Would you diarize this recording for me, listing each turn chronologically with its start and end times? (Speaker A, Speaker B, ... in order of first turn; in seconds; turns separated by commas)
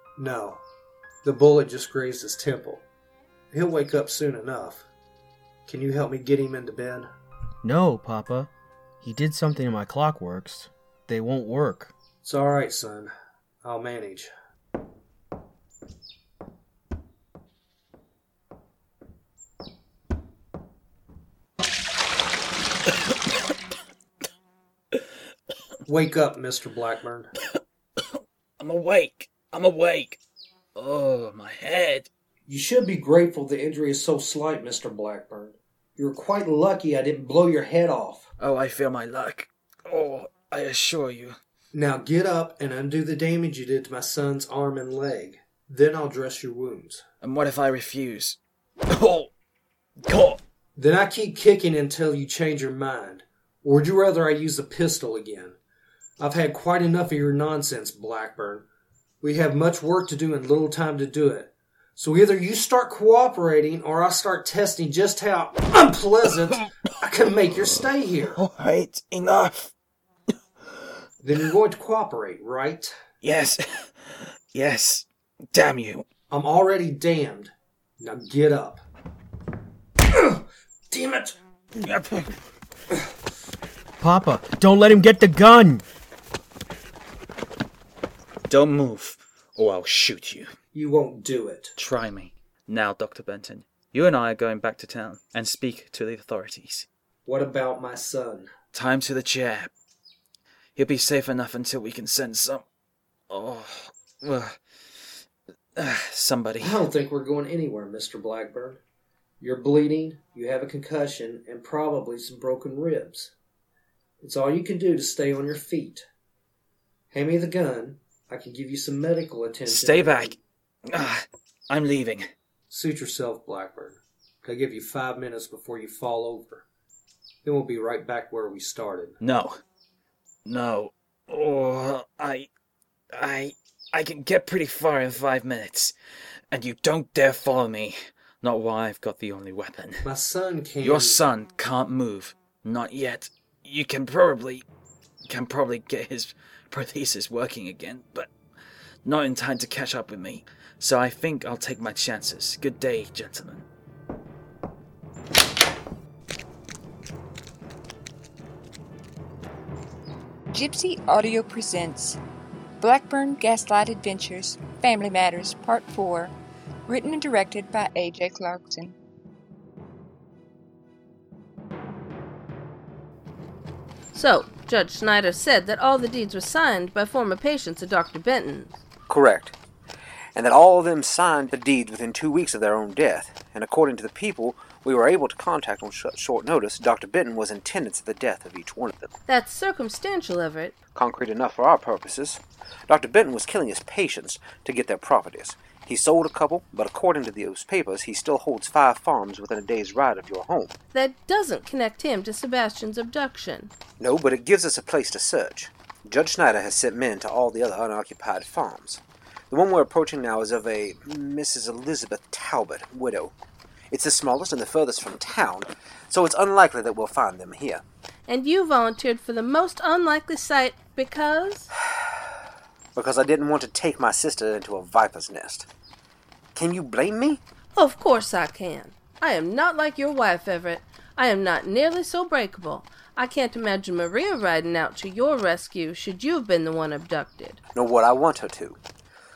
Speaker A: 0.2-0.6, Speaker A: 1.2-2.9, Speaker A: 3.5-4.9, Speaker A: 5.7-7.1, Speaker B: 7.6-11.9, Speaker A: 12.2-14.3, Speaker A: 25.9-27.3, Speaker C: 28.0-30.2, Speaker C: 30.7-32.1, Speaker A: 32.5-38.3, Speaker C: 38.4-41.4, Speaker A: 41.7-47.0, Speaker C: 47.2-48.4, Speaker C: 48.9-49.3, Speaker C: 50.0-50.4, Speaker A: 50.8-55.6, Speaker A: 56.2-58.7, Speaker A: 59.2-68.4, Speaker C: 66.4-66.7, Speaker C: 67.5-69.7, Speaker A: 71.2-73.0, Speaker C: 73.2-76.0, Speaker A: 76.3-78.8, Speaker A: 80.1-81.4, Speaker C: 81.7-82.3, Speaker B: 84.0-85.8, Speaker C: 88.5-90.5, Speaker A: 90.7-91.7, Speaker C: 91.8-96.9, Speaker A: 97.2-98.5, Speaker C: 98.7-99.7, Speaker C: 100.8-102.6, Speaker C: 103.3-105.1, Speaker C: 105.8-106.9, Speaker A: 106.7-108.8, Speaker A: 109.4-113.3, Speaker A: 114.2-116.0, Speaker A: 117.1-120.3, Speaker C: 119.6-120.4, Speaker C: 120.9-122.3, Speaker A: 122.7-126.7, Speaker A: 127.4-129.2, Speaker C: 129.2-129.6, Speaker C: 130.4-132.5, Speaker C: 133.1-135.9, Speaker C: 136.5-140.0, Speaker A: 140.1-141.2, Speaker C: 140.8-144.7, Speaker C: 145.2-148.3, Speaker C: 149.0-153.7, Speaker D: 160.5-162.2, Speaker D: 162.8-166.3, Speaker D: 166.9-168.9, Speaker E: 174.1-178.8, Speaker F: 179.1-179.5, Speaker F: 180.3-189.1, Speaker E: 189.3-190.7, Speaker F: 190.9-200.7, Speaker E: 200.9-203.7, Speaker F: 204.0-213.3, Speaker F: 213.9-217.8, Speaker E: 218.3-221.7, Speaker F: 222.9-225.7, Speaker F: 226.5-227.4, Speaker E: 227.7-237.6, Speaker F: 237.7-238.8